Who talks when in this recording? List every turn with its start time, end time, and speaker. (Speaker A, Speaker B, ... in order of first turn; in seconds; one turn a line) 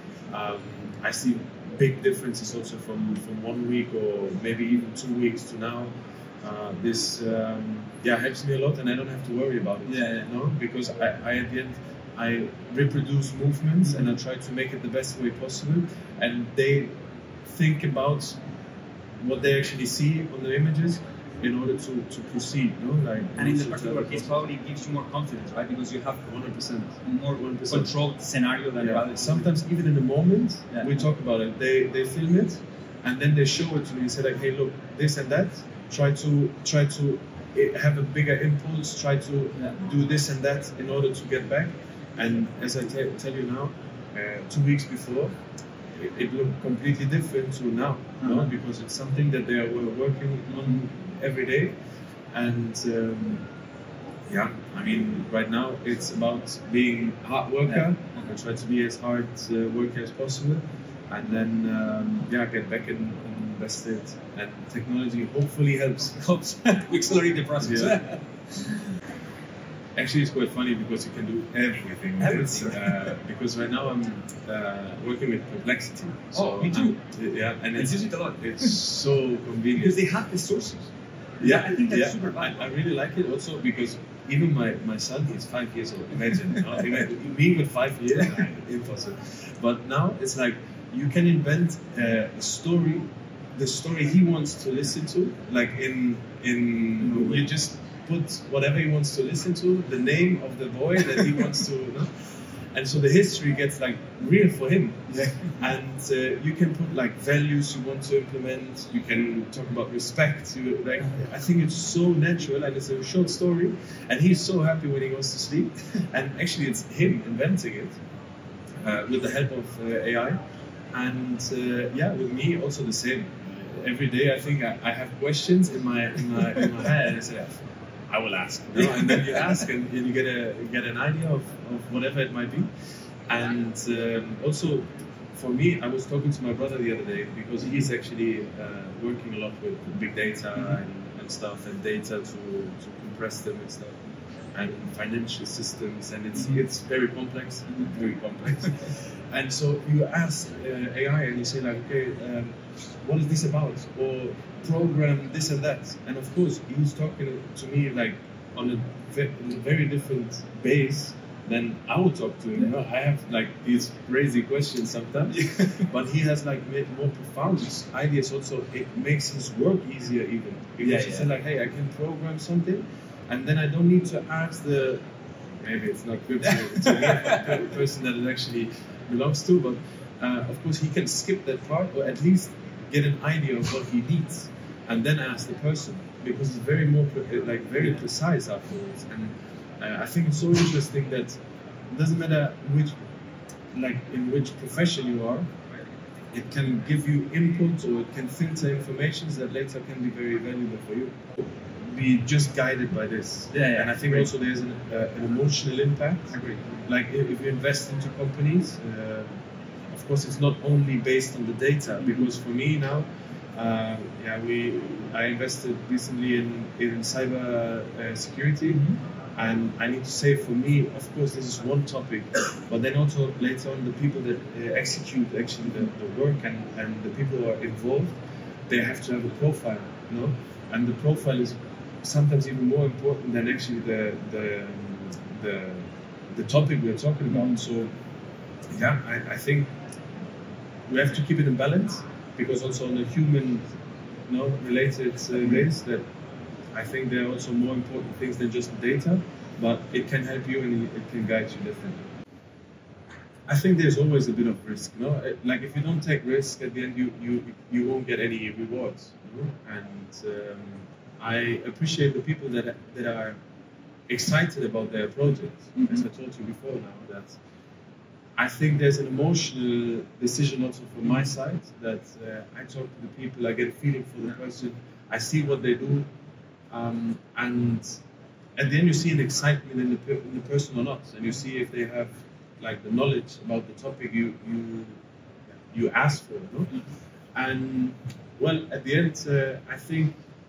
Speaker A: 0.3-17.0
Speaker B: 9.9-10.3
Speaker A: 17.5-18.4
Speaker A: 19.2-24.3
Speaker B: 23.4-26.3
Speaker A: 26.2-27.9
Speaker B: 27.1-29.5
Speaker A: 28.8-45.3
Speaker A: 46.0-51.8
Speaker B: 48.2-48.5
Speaker A: 52.3-53.5
Speaker A: 54.3-66.2
Speaker B: 66.2-68.2
Speaker A: 67.6-68.0
Speaker A: 70.0-80.0
Speaker B: 72.2-73.1
Speaker B: 76.3-77.0
Speaker B: 77.8-78.8
Speaker B: 79.8-82.6
Speaker A: 81.4-118.0
Speaker B: 97.0-97.5
Speaker B: 105.1-105.5
Speaker A: 118.8-120.4
Speaker A: 120.9-132.7
Speaker A: 133.3-144.0
Speaker A: 144.5-175.1
Speaker B: 165.3-165.7
Speaker B: 170.8-171.3
Speaker A: 175.6-191.4
Speaker A: 191.9-193.0
Speaker A: 193.7-195.5
Speaker A: 196.3-201.3
Speaker A: 201.9-209.4
Speaker B: 203.5-204.3
Speaker B: 206.3-206.8
Speaker A: 209.9-237.9
Speaker B: 218.7-219.0
Speaker B: 237.3-237.6
Speaker A: 238.7-239.7
Speaker A: 240.9-243.7
Speaker A: 244.3-246.1
Speaker A: 246.7-252.1
Speaker A: 253.5-263.4
Speaker A: 264.1-267.4
Speaker A: 268.4-276.1
Speaker A: 276.7-278.0
Speaker A: 278.6-285.0
Speaker A: 285.7-286.7
Speaker A: 287.3-290.2